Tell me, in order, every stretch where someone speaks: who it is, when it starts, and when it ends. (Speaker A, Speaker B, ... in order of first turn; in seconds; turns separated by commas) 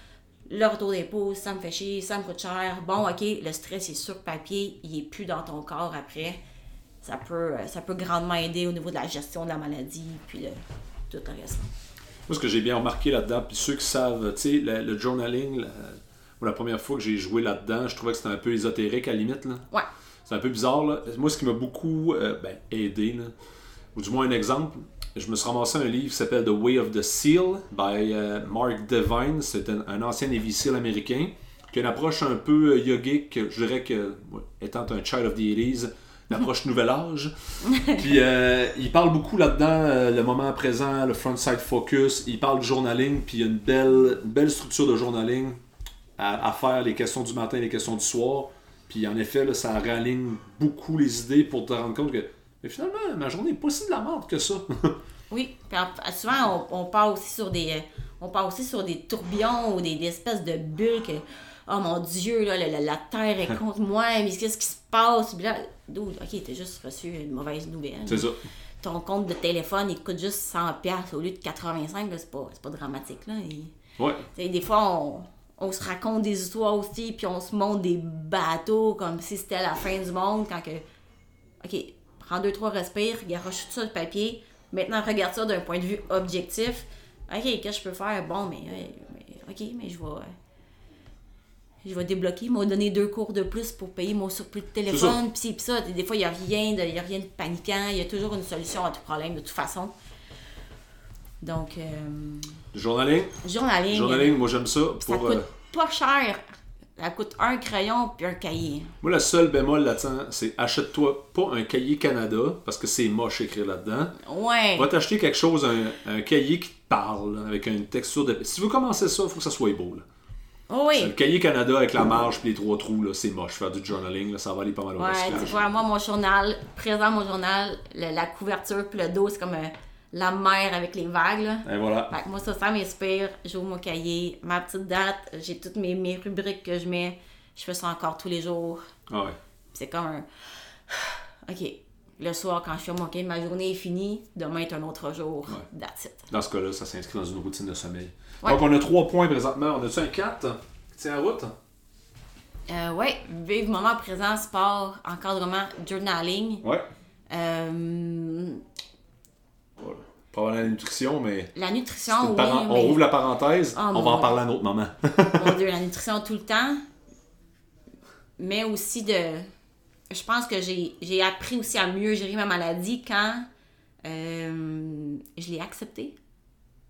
Speaker A: 0.5-6.4, Speaker A: 7.0-10.6, Speaker A: 11.1-11.7, Speaker B: 12.3-19.7, Speaker B: 20.2-23.3, Speaker B: 23.9-45.6, Speaker A: 37.6-38.0, Speaker B: 46.2-55.0, Speaker A: 55.3-73.7, Speaker B: 68.1-68.4, Speaker B: 74.0-74.2, Speaker A: 74.3-80.8, Speaker A: 81.6-90.3, Speaker A: 91.8-99.9, Speaker B: 94.9-95.2, Speaker A: 101.4-102.6, Speaker B: 102.7-105.5, Speaker A: 103.4-104.3, Speaker A: 105.0-106.4, Speaker A: 107.0-108.9, Speaker B: 109.0-114.2, Speaker A: 114.2-114.9, Speaker B: 114.8-120.0, Speaker A: 120.7-121.1, Speaker B: 120.9-125.6, Speaker A: 125.0-138.8, Speaker B: 131.6-132.1, Speaker B: 139.1-139.4, Speaker A: 139.7-146.3, Speaker B: 146.3-151.5, Speaker A: 152.7-156.6, Speaker A: 157.3-158.6, Speaker B: 159.8-161.5, Speaker A: 161.5-163.0, Speaker B: 162.1-165.5, Speaker A: 163.7-164.4, Speaker A: 165.3-166.8, Speaker A: 168.4-169.4, Speaker A: 170.1-173.5, Speaker A: 174.0-176.2